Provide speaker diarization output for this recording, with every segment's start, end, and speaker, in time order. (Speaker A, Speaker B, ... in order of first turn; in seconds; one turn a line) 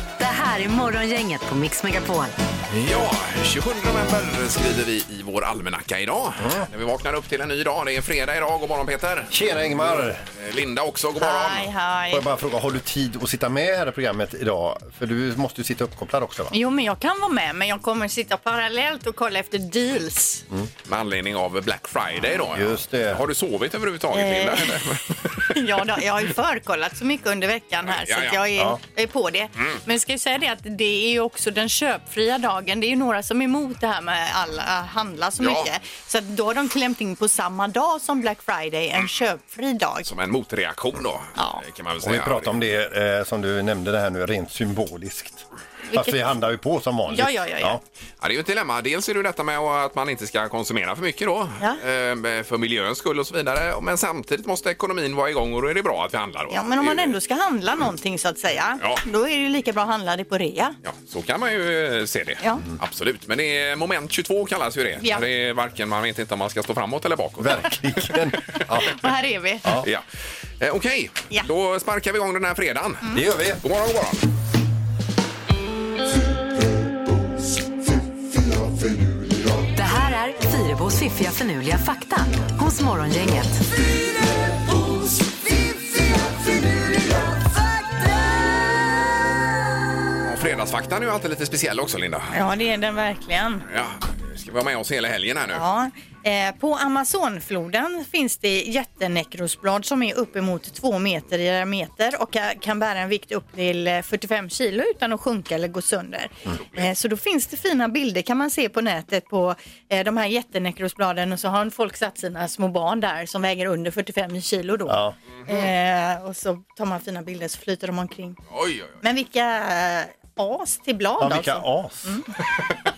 Speaker A: 0.2-2.4
Speaker B: 2.7-9.3
Speaker C: 6.4-6.7
Speaker C: 9.3-10.2
Speaker B: 10.3-11.7
Speaker D: 11.2-12.2
Speaker C: 12.1-16.5
Speaker D: 16.5-20.4
Speaker B: 20.9-25.5
Speaker C: 22.5-23.2
Speaker D: 24.1-24.8
Speaker D: 25.4-40.1
Speaker B: 27.9-28.4
Speaker B: 35.4-35.7
Speaker B: 40.1-42.6
Speaker D: 41.4-41.6
Speaker C: 42.0-47.8
Speaker D: 45.9-46.2
Speaker D: 47.1-47.8
Speaker B: 48.2-57.1
Speaker D: 56.5-60.8
Speaker B: 60.9-68.1
Speaker C: 67.4-69.0
Speaker D: 68.8-69.7
Speaker B: 70.6-74.2
Speaker C: 73.1-73.6
Speaker A: 79.8-83.7
Speaker B: 90.2-92.3
Speaker D: 92.3-93.7
Speaker B: 93.7-95.7
Speaker D: 95.5-118.4
Speaker C: 114.9-115.2
Speaker B: 118.5-119.0
Speaker D: 119.0-122.3
Speaker C: 121.2-122.1